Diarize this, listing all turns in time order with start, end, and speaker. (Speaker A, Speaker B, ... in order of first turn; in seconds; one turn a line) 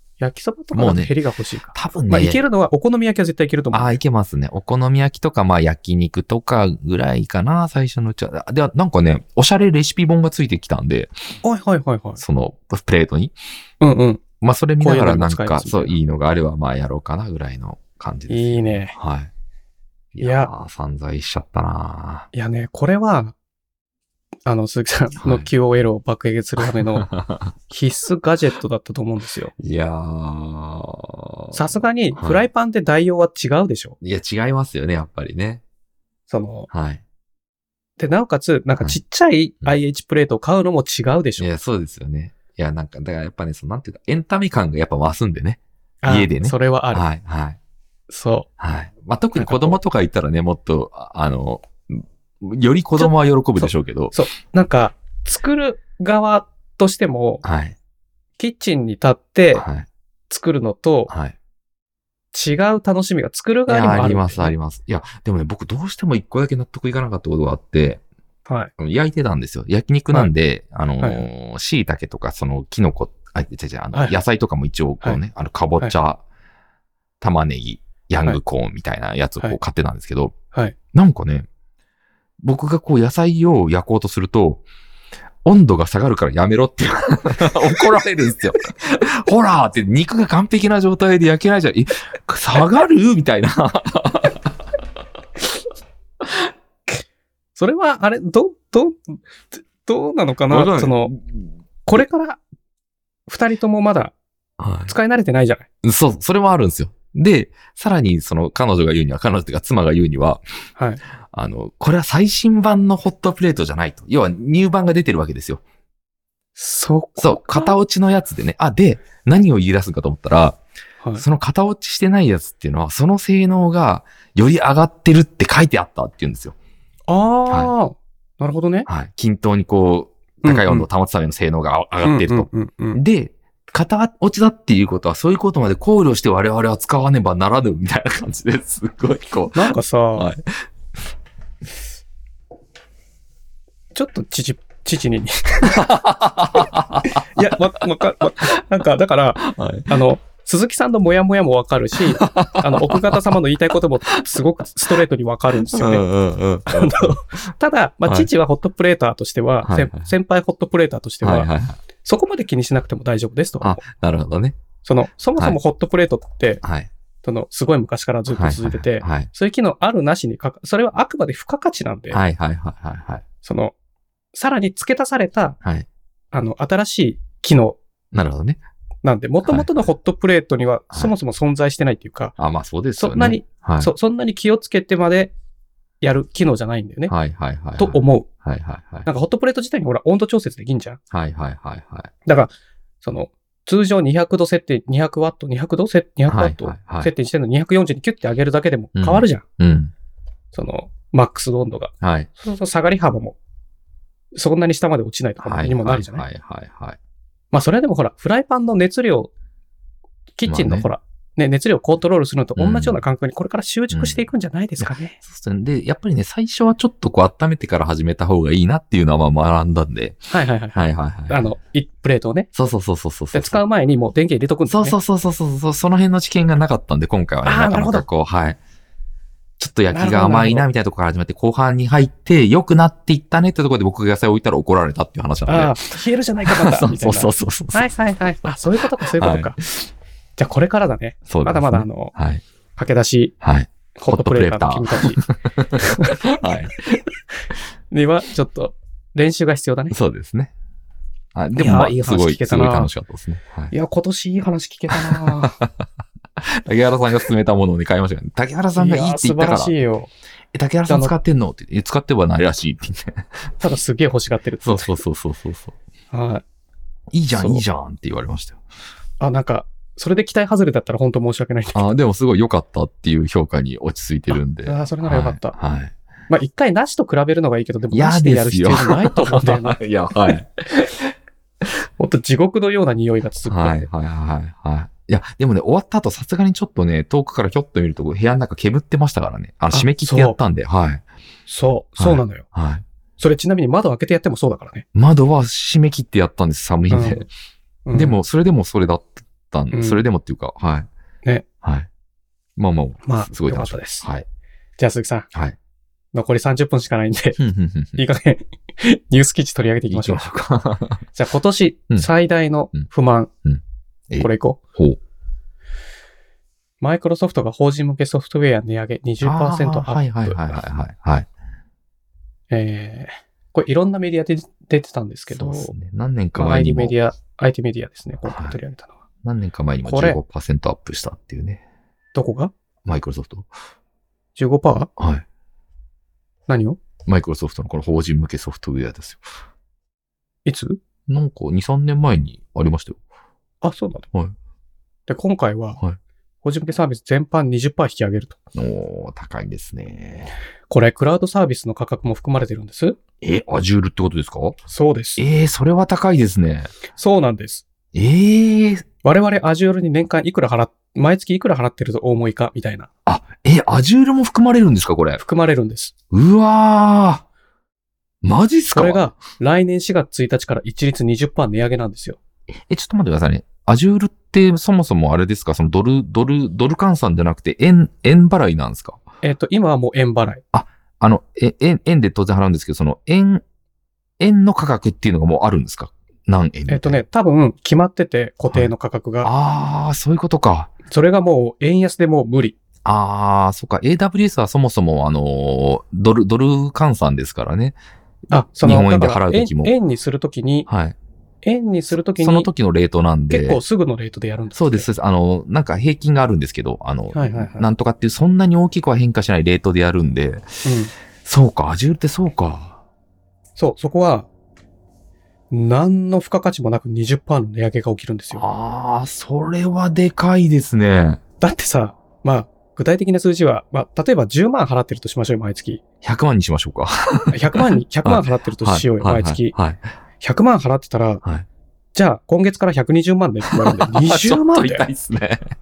Speaker A: 0.2-4.0
Speaker B: 0.7-1.1
Speaker B: 1.7-2.4
Speaker B: 3.7-11.1
Speaker A: 11.4-12.2
Speaker B: 12.2-13.3
Speaker A: 13.8-14.2
Speaker B: 14.4-19.3
Speaker A: 14.8-15.9
Speaker A: 18.3-18.9
Speaker B: 20.1-22.3
Speaker A: 20.2-20.5
Speaker A: 22.3-23.3
Speaker A: 24.4-27.1
Speaker B: 25.2-25.5
Speaker B: 26.6-27.5
Speaker A: 27.7-29.5
Speaker B: 29.6-31.6
Speaker A: 31.5-34.0
Speaker B: 32.1-32.4
Speaker B: 34.0-35.6
Speaker A: 36.3-36.7
Speaker B: 36.7-37.0
Speaker A: 38.0-41.5
Speaker B: 41.4-47.6
Speaker A: 46.0-47.0
Speaker A: 48.1-48.5
Speaker B: 48.6-54.1
Speaker A: 49.4-49.8
Speaker A: 53.0-57.4
Speaker B: 57.4-57.8
Speaker A: 58.4-59.6
Speaker B: 59.5-59.9
Speaker A: 60.3-61.1
Speaker B: 61.1-61.3
Speaker A: 62.3-64.5
Speaker B: 63.7-68.0
Speaker B: 68.8-76.2
Speaker A: 71.0-71.2
Speaker B: 77.2-80.3
Speaker B: 80.9-81.5
Speaker B: 82.4-84.6
Speaker B: 85.4-94.5
Speaker A: 97.5-101.1
Speaker B: 100.5-101.4
Speaker A: 101.8-102.4
Speaker A: 103.3-104.1
Speaker B: 104.6-104.9
Speaker A: 104.9-105.7
Speaker B: 105.8-110.4
Speaker B: 111.3-115.6
Speaker A: 116.6-117.7
Speaker B: 117.2-120.6
Speaker B: 121.2-126.5
Speaker A: 127.1-128.9
Speaker B: 128.9-140.5
Speaker A: 130.4-130.9
Speaker A: 132.0-133.0
Speaker A: 139.5-140.3
Speaker A: 143.9-145.9
Speaker B: 145.6-147.2
Speaker A: 147.1-156.1
Speaker B: 149.4-149.9
Speaker B: 152.1-153.3
Speaker B: 155.6-157.3
Speaker A: 156.7-161.5
Speaker B: 159.6-160.1
Speaker B: 161.2-161.8
Speaker A: 162.0-163.8
Speaker B: 163.6-164.6
Speaker A: 164.8-166.6
Speaker B: 166.6-166.9
Speaker A: 167.2-172.2
Speaker B: 168.3-169.3
Speaker B: 172.1-173.2
Speaker A: 173.4-173.7
Speaker A: 174.3-175.6
Speaker A: 176.3-177.8
Speaker B: 178.1-178.6
Speaker A: 179.0-182.3
Speaker B: 179.4-179.7
Speaker B: 182.4-183.9
Speaker A: 183.0-185.3
Speaker A: 186.0-187.1
Speaker B: 187.1-189.1
Speaker A: 187.8-188.3
Speaker A: 189.1-191.0
Speaker B: 191.1-192.1
Speaker A: 192.2-199.4
Speaker B: 196.3-197.1
Speaker B: 198.9-199.9
Speaker A: 200.5-203.4
Speaker B: 202.0-202.3
Speaker A: 204.3-206.2
Speaker B: 205.4-207.0
Speaker A: 207.5-209.3
Speaker A: 210.4-215.2
Speaker B: 210.4-210.9
Speaker B: 212.6-213.0
Speaker B: 213.9-214.2
Speaker B: 214.8-220.2
Speaker A: 220.3-222.5
Speaker B: 220.7-221.4
Speaker B: 222.5-223.6
Speaker A: 223.3-225.0
Speaker B: 224.7-228.6
Speaker A: 227.4-228.0
Speaker B: 229.6-235.9
Speaker A: 229.9-230.7
Speaker A: 235.5-239.6
Speaker B: 236.4-237.8
Speaker B: 239.0-239.9
Speaker A: 240.4-242.1
Speaker B: 241.3-242.4
Speaker A: 242.8-243.3
Speaker B: 243.4-247.0
Speaker A: 243.9-245.2
Speaker A: 245.8-246.3
Speaker A: 247.9-249.9
Speaker B: 249.9-250.5
Speaker B: 251.3-253.7
Speaker A: 251.5-252.9
Speaker A: 253.7-255.6
Speaker B: 254.9-255.8
Speaker B: 256.4-259.7
Speaker A: 258.8-260.1
Speaker B: 260.5-263.5
Speaker A: 260.9-261.1
Speaker A: 263.6-265.0
Speaker B: 264.6-265.7
Speaker A: 266.1-266.4
Speaker B: 267.1-268.6
Speaker A: 267.3-267.6
Speaker A: 269.2-271.9
Speaker B: 271.7-275.9
Speaker A: 274.6-275.5
Speaker A: 276.3-279.8
Speaker B: 277.9-281.0
Speaker A: 282.0-283.9
Speaker B: 283.5-291.0
Speaker A: 289.7-290.4
Speaker A: 291.5-292.4
Speaker B: 292.0-292.8
Speaker A: 293.2-294.8
Speaker B: 294.9-297.3
Speaker A: 296.9-297.2
Speaker A: 297.9-298.2
Speaker B: 297.9-300.9
Speaker A: 299.7-300.0
Speaker B: 301.6-301.9
Speaker B: 302.6-304.2
Speaker A: 303.0-304.1
Speaker A: 304.8-305.3
Speaker A: 306.1-307.4
Speaker B: 307.4-308.0
Speaker A: 307.9-310.3
Speaker B: 309.9-311.0
Speaker A: 311.1-313.3
Speaker B: 313.4-315.0
Speaker A: 314.2-314.6
Speaker A: 316.8-320.5
Speaker B: 319.2-321.3
Speaker A: 322.5-325.7
Speaker B: 325.3-326.9
Speaker A: 326.4-328.9
Speaker B: 328.3-328.6
Speaker B: 329.2-331.6
Speaker A: 329.8-330.2
Speaker A: 332.1-332.5
Speaker B: 332.9-333.5
Speaker A: 334.4-334.9
Speaker B: 335.0-335.2
Speaker A: 336.5-336.8
Speaker B: 337.1-339.2
Speaker A: 340.4-340.8
Speaker B: 341.1-343.0
Speaker A: 343.6-344.1
Speaker A: 345.1-345.8
Speaker A: 346.4-348.4
Speaker B: 348.5-350.3
Speaker A: 350.7-353.0
Speaker B: 353.2-354.6
Speaker A: 354.7-355.2
Speaker B: 355.2-356.7
Speaker A: 356.9-357.6
Speaker B: 357.9-358.8
Speaker A: 359.0-362.9
Speaker B: 363.1-365.2
Speaker A: 365.2-365.9
Speaker B: 366.1-367.2
Speaker B: 368.2-369.0
Speaker A: 368.7-372.2
Speaker B: 372.7-379.0
Speaker A: 379.2-380.4
Speaker B: 380.5-383.4
Speaker B: 384.2-387.0
Speaker A: 386.7-389.3
Speaker B: 389.2-390.7
Speaker A: 390.9-392.6
Speaker B: 392.8-397.8
Speaker A: 398.3-400.7
Speaker B: 398.6-399.7
Speaker B: 400.7-400.9
Speaker A: 401.4-402.5
Speaker B: 402.2-403.6
Speaker A: 403.3-404.9
Speaker B: 404.5-410.6
Speaker A: 407.1-407.7
Speaker A: 410.6-410.9
Speaker B: 411.2-412.8
Speaker A: 413.6-414.3
Speaker A: 415.5-418.4
Speaker B: 418.3-421.2
Speaker A: 421.4-425.8
Speaker B: 426.0-429.8
Speaker A: 427.3-429.5
Speaker A: 430.2-431.2
Speaker A: 431.9-434.9
Speaker B: 433.5-435.4